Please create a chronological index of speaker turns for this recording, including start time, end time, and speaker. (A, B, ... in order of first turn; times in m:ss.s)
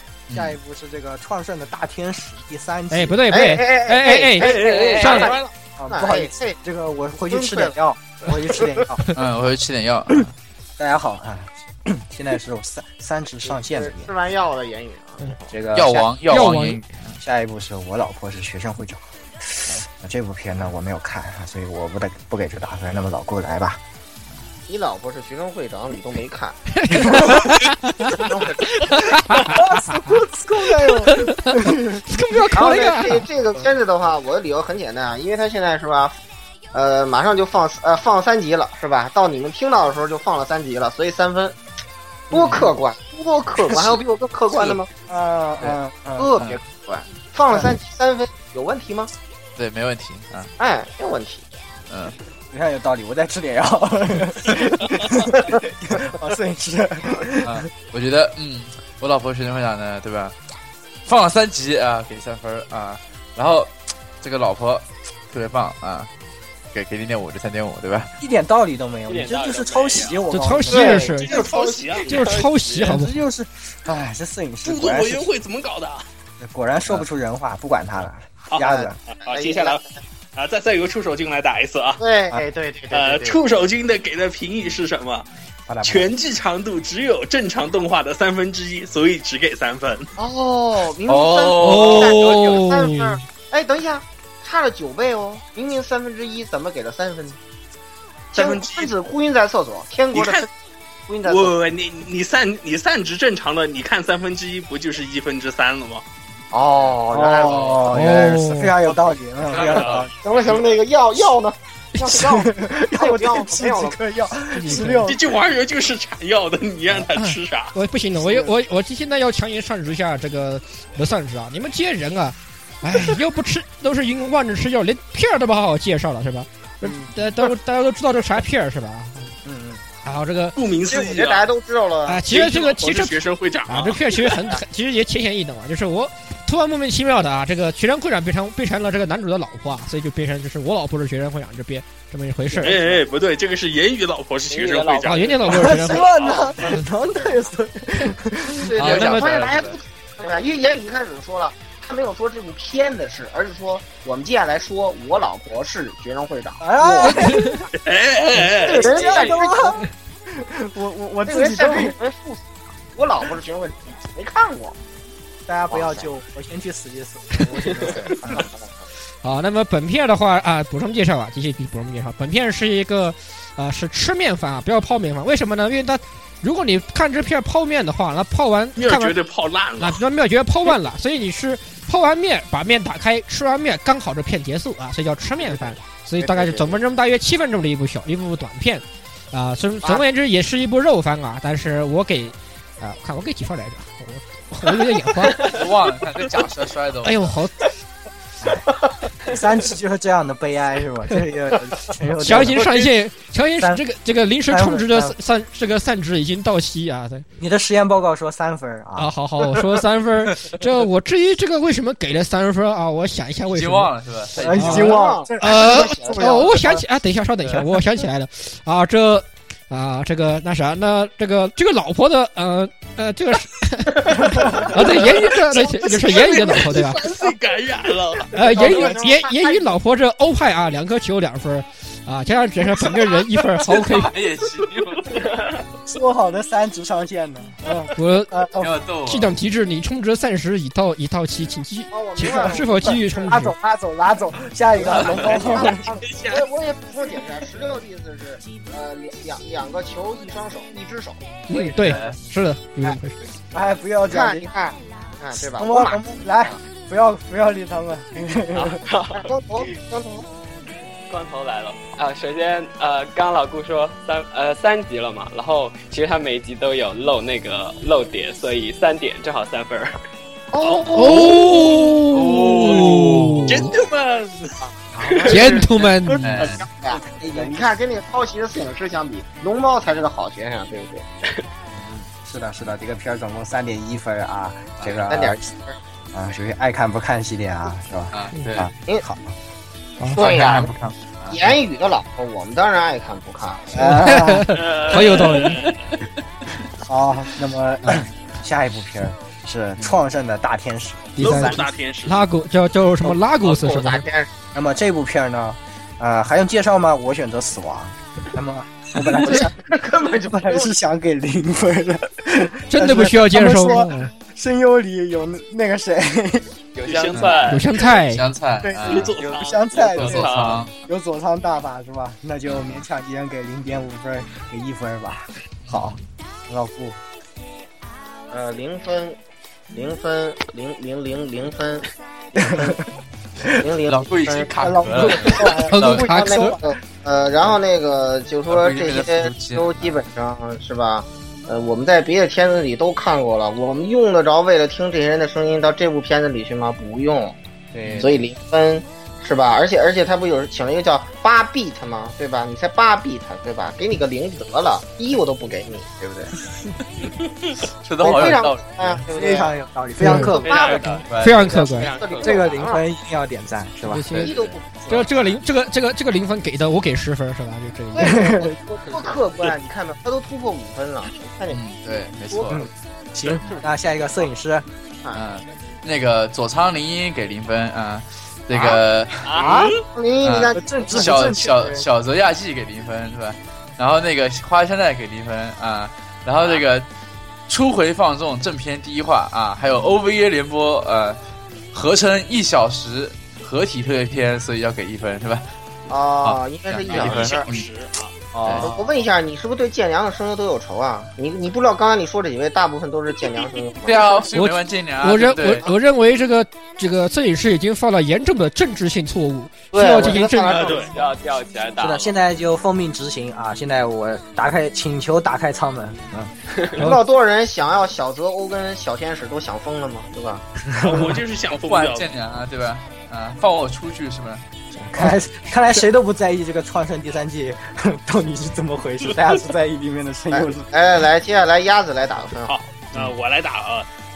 0:00.3-0:00.6 A
0:00.3-0:03.3 B
0:02.9-0:05.3 C
0:03.3-0:06.6 D
0:04.4-0:05.3 E
0:05.8-0:09.0 B
0:07.3-0:07.7 D
0:09.1-0:10.3 A
0:10.8-0:14.1 B
0:13.4-0:15.6 D
0:15.5-0:16.1 B
0:15.7-0:17.2 A
0:16.3-0:16.8 C
0:17.2-0:23.8 B
0:24.7-0:27.4 D
0:26.7-0:28.3 C
0:28.1-0:29.1 D
0:28.9-0:30.2 C
0:29.4-0:32.0 B
0:31.0-0:33.3 C
0:32.5-0:36.2 D
0:36.7-0:41.6 D
0:42.3-0:44.9 D
0:42.3-0:42.7 B
0:45.1-0:46.3 B
0:46.2-0:49.1 D
0:49.6-0:50.5 A
0:50.6-0:51.4 D
0:51.9-0:52.1 A
0:52.5-0:57.7 B
0:57.4-1:00.4 A
1:01.0-1:06.1 A
1:06.7-1:08.1 A
1:08.2-1:11.6 B
1:09.1-1:10.3 F
1:10.3-1:11.3 C
1:10.7-1:12.0 D
1:11.0-1:12.2 E
1:12.0-1:13.2 C
1:12.1-1:12.6 F
1:12.7-1:15.3 B
1:14.6-1:16.0 E
1:16.4-1:19.0 B
1:18.5-1:19.8 E
1:18.6-1:20.0 D
1:20.3-1:22.0 E
1:22.0-1:23.4 D
1:22.9-1:25.3 E
1:25.7-1:26.1 B
1:25.8-1:30.1 E
1:30.2-1:37.4 D
1:31.1-1:32.4 A
1:31.6-1:33.2 C
1:38.3-1:40.5 D
1:38.3-1:38.9 E
1:40.1-1:40.5 E
1:41.1-1:41.6 D
1:41.2-1:46.0 E
1:46.5-1:48.0 D
1:47.1-1:50.1 B
1:47.9-1:48.7 C
1:49.5-1:50.1 E
1:49.7-1:50.0 A
1:50.2-1:54.0 D
1:52.1-1:55.2 B
1:54.5-1:55.1 C
1:55.0-1:57.7 E
1:57.2-2:09.3 C
1:58.2-1:58.5 B
2:06.8-2:07.1 B
2:09.4-2:09.8 B
2:10.0-2:10.6 C
2:10.6-2:11.5 E
2:10.9-2:12.3 D
2:12.1-2:22.8 C
2:12.3-2:14.1 E
2:22.5-2:23.0 B
2:22.6-2:25.3 E
2:24.5-2:25.5 F
2:25.0-2:26.1 C
2:25.5-2:28.7 B
2:26.0-2:26.5 E
2:28.6-2:37.6 D
2:28.8-2:29.3 C
2:28.8-2:29.8 A
2:36.6-2:37.6 B
2:37.1-2:37.6 C
2:37.7-2:38.9 E
2:38.5-2:42.0 B
2:38.6-2:39.8 D
2:41.3-2:44.8 D
2:45.5-2:48.4 B
2:45.7-2:46.1 D
2:47.9-2:48.8 D
2:49.2-2:59.2 C
2:58.8-3:00.0 E
2:59.8-3:15.4 C
3:06.2-3:06.8 D
3:15.4-3:17.4 A
3:17.0-3:17.6 C
3:18.4-3:18.7 B
3:19.2-3:22.8 B
3:22.2-3:27.3 C
3:24.5-3:25.1 B
3:27.4-3:29.1 B
3:29.0-3:33.9 C
3:33.5-3:35.0 A
3:34.3-3:36.8 B
3:34.6-3:47.2 C
3:34.7-3:36.8 D
3:44.1-3:44.6 B
3:44.8-3:48.3 E
3:48.3-3:54.1 C
3:48.4-3:49.7 D
3:48.5-3:49.0 B
3:53.6-3:55.3 A
3:55.8-3:58.8 B
3:58.0-3:58.3 C
3:58.6-3:59.3 A
3:59.0-4:03.6 C
4:01.9-4:03.3 D
4:03.3-4:05.8 B
4:04.8-4:11.2 D
4:04.9-4:05.3 A
4:05.6-4:06.4 E
4:11.5-4:13.2 C
4:13.5-4:14.5 B
4:14.1-4:16.5 D
4:15.4-4:18.8 B
4:18.5-4:19.3 F
4:19.1-4:20.3 D
4:21.1-4:30.0 F
4:30.5-4:31.6 D
4:30.9-4:33.7 C
4:32.1-4:33.7 A
4:33.5-4:34.6 E
4:35.0-4:41.0 D
4:35.2-4:36.3 C
4:36.2-4:36.6 A
4:36.9-4:37.7 B
4:41.7-4:45.4 B
4:45.1-4:45.8 D
4:46.1-4:49.3 B
4:48.1-4:48.7 A
4:50.1-4:50.7 D
4:50.1-4:51.6 A
4:51.3-4:53.9 D
4:53.7-4:54.6 B
4:53.8-4:55.7 C
4:54.5-4:55.8 E
4:56.8-5:01.5 B
5:01.2-5:04.0 C
5:01.2-5:02.3 E
5:03.4-5:04.3 D
5:04.5-5:16.5 B
5:09.2-5:10.7 D
5:12.7-5:14.1 C
5:16.7-5:17.8 F
5:16.9-5:17.4 E
5:17.1-5:19.1 A
5:17.4-5:18.2 C
5:18.6-5:27.0 B
5:18.8-5:19.4 E
5:19.1-5:20.6 F
5:20.0-5:20.7 A
5:22.4-5:22.8 A
5:25.6-5:26.0 A
5:28.3-5:29.2 D
5:29.7-5:32.8 D
5:32.4-5:32.8 B
5:33.5-5:47.4 D
5:33.9-5:36.2 A
5:34.6-5:36.7 B
5:35.6-5:36.6 C
5:38.5-5:40.0 A
5:47.7-5:48.1 B
5:47.8-5:48.1 A
5:48.0-5:56.3 D
5:57.8-5:59.0 A
5:58.0-5:59.5 D
5:59.1-6:00.8 B
6:00.0-6:00.3 C
6:00.1-6:02.8 D
6:00.3-6:02.7 F
6:01.0-6:01.5 A
6:01.1-6:01.9 C
6:02.2-6:04.1 B
6:03.9-6:04.3 C
6:04.1-6:04.6 A
6:04.1-6:05.2 D
6:04.9-6:08.2 C
6:08.0-6:12.7 D
6:08.0-6:08.6 B
6:11.5-6:12.6 A
6:12.5-6:14.6 B
6:15.1-6:19.3 A
6:19.2-6:19.7 F
6:19.4-6:19.8 E
6:19.9-6:21.4 D
6:20.2-6:26.9 A
6:20.5-6:21.8 B
6:27.5-6:31.2 A
6:31.7-6:35.4 A
6:35.9-6:37.5 D
6:36.2-6:37.6 A
6:36.9-6:38.1 E
6:38.3-6:38.9 B
6:38.4-6:38.7 A
6:38.6-6:44.3 D
6:43.8-6:45.7 A
6:44.3-6:50.8 C
6:49.7-6:51.0 D
6:50.5-6:50.9 E
6:50.7-6:52.1 F
6:51.8-6:56.3 B
6:56.8-7:00.4 D
7:00.7-7:01.2 B
7:00.8-7:02.1 E
7:01.5-7:04.4 A
7:04.7-7:10.7 B
7:10.3-7:12.6 D
7:12.5-7:13.9 E